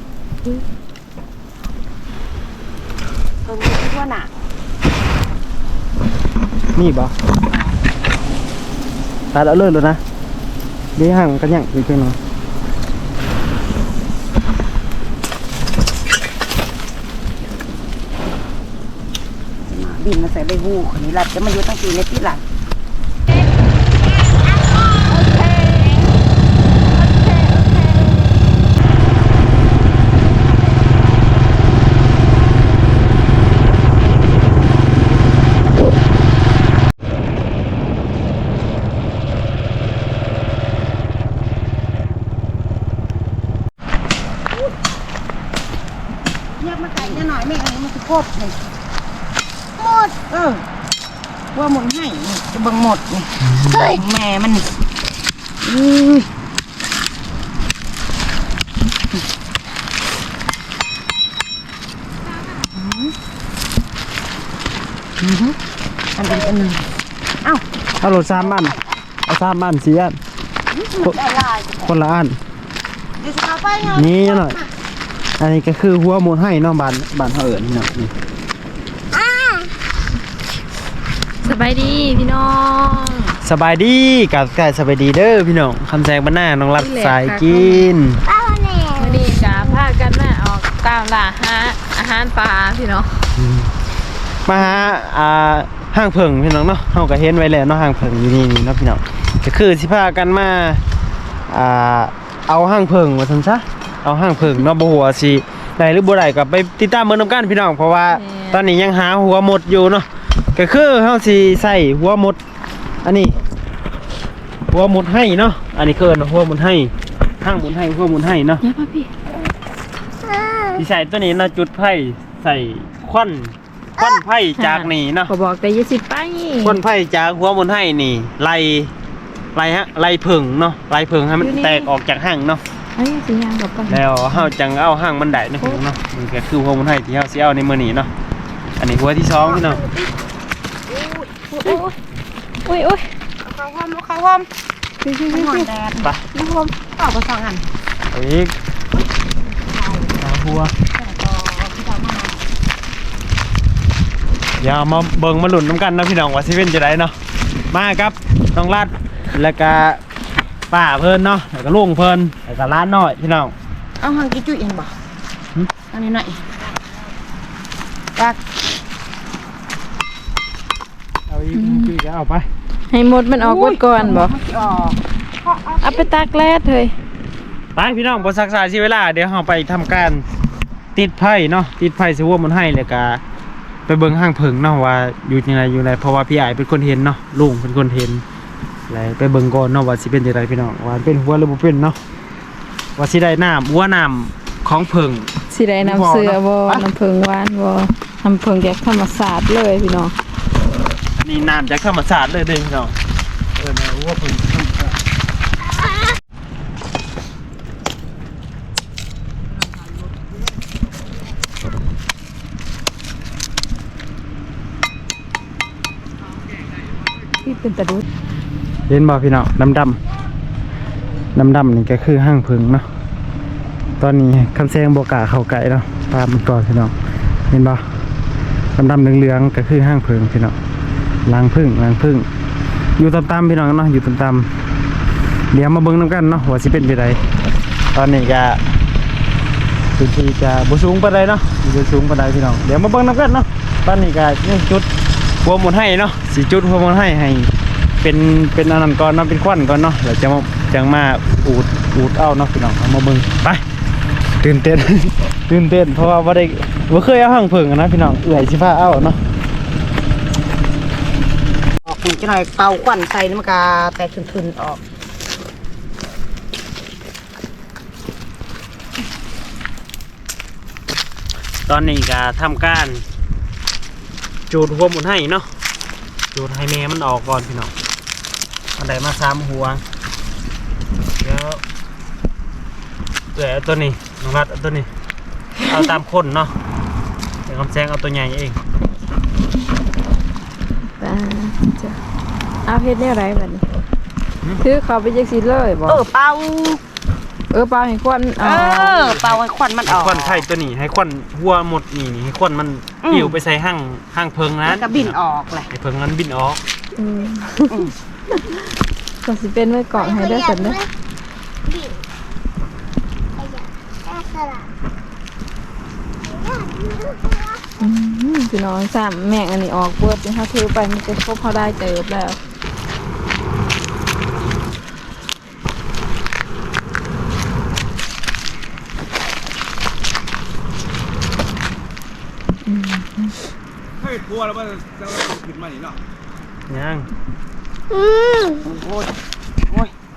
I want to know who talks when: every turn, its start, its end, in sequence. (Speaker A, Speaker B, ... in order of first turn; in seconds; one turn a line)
Speaker A: 3.5-4.3
Speaker B: 6.7-7.2
Speaker A: 7.5-7.8
Speaker B: 9.3-10.0
Speaker B: 10.9-12.2
Speaker A: 19.7-22.4
Speaker C: 24.9-26.1
Speaker C: 26.9-28.4
Speaker A: 46.6-48.5
Speaker A: 49.8-50.6
Speaker A: 51.5-54.6
Speaker B: 53.4-53.9
Speaker A: 55.6-56.3
Speaker A: 62.6-63.1
Speaker A: 66.2-66.8
Speaker A: 67.4-68.9
Speaker B: 68.0-68.7
Speaker B: 69.3-70.2
Speaker A: 70.7-71.9
Speaker B: 71.8-72.4
Speaker A: 73.2-74.7
Speaker B: 73.8-74.6
Speaker B: 75.4-78.1
Speaker D: 79.1-79.7
Speaker C: 81.4-83.4
Speaker B: 83.4-88.2
Speaker C: 86.8-87.9
Speaker D: 88.3-89.6
Speaker C: 89.0-93.3
Speaker B: 93.3-93.8
Speaker B: 94.5-100.8
Speaker B: 101.5-112.4
Speaker C: 108.1-108.6
Speaker B: 113.0-113.4
Speaker B: 114.7-118.6
Speaker C: 118.6-119.1
Speaker D: 120.3-120.6
Speaker B: 120.7-125.3
Speaker C: 124.6-126.8
Speaker B: 126.6-128.9
Speaker B: 129.5-132.6
Speaker C: 131.4-131.8
Speaker C: 132.9-134.5
Speaker B: 133.9-138.1
Speaker B: 138.8-139.8
Speaker A: 139.4-140.1
Speaker A: 140.9-141.8
Speaker C: 141.5-141.9
Speaker C: 142.6-143.1
Speaker A: 143.4-144.5
Speaker C: 145.0-145.7
Speaker A: 145.3-146.1
Speaker C: 146.3-146.7
Speaker A: 146.9-147.7
Speaker B: 148.1-148.5
Speaker A: 149.0-150.2
Speaker B: 150.2-150.7
Speaker A: 150.9-152.4
Speaker B: 154.6-157.1
Speaker B: 157.7-160.0
Speaker B: 160.7-163.5
Speaker A: 164.0-164.9
Speaker A: 165.9-166.4
Speaker B: 171.3-172.5
Speaker C: 171.5-171.9
Speaker C: 172.9-174.3
Speaker A: 173.4-176.1
Speaker C: 175.8-176.9
Speaker B: 177.8-180.2
Speaker B: 180.9-183.2
Speaker B: 183.9-188.2
Speaker B: 188.9-192.0
Speaker B: 192.9-196.8
Speaker C: 195.5-200.1
Speaker B: 201.2-202.9
Speaker B: 203.6-204.9
Speaker C: 217.4-218.0
Speaker B: 218.9-220.0
Speaker B: 221.3-222.8
Speaker B: 224.0-226.9
Speaker B: 227.5-227.8
Speaker B: 228.8-230.6
Speaker B: 231.2-232.3
Speaker B: 233.0-234.5
Speaker B: 235.5-237.2
Speaker B: 237.9-238.6
Speaker B: 240.0-244.9
Speaker B: 245.4-253.6
Speaker B: 254.4-259.2
Speaker A: 261.8-264.8
Speaker B: 271.7-273.0
Speaker B: 274.5-275.5
Speaker B: 276.3-277.7
Speaker B: 278.8-279.8
Speaker B: 281.2-281.6
Speaker B: 283.3-284.9
Speaker B: 285.7-286.5
Speaker B: 287.4-288.6
Speaker C: 291.0-292.0
Speaker C: 292.6-293.6
Speaker C: 294.6-296.0
Speaker A: 295.9-296.8
Speaker C: 297.5-299.0
Speaker A: 298.4-300.4
Speaker B: 298.6-305.1
Speaker A: 303.0-303.4
Speaker A: 304.7-305.7
Speaker B: 305.7-306.6
Speaker C: 306.9-308.6
Speaker C: 309.2-310.8
Speaker D: 310.0-310.9
Speaker D: 311.7-312.0
Speaker D: 313.4-314.7
Speaker D: 316.3-317.6
Speaker C: 317.8-322.4
Speaker C: 332.6-333.4
Speaker E: 334.0-336.0
Speaker B: 336.7-337.1
Speaker D: 337.9-338.5
Speaker A: 338.6-339.1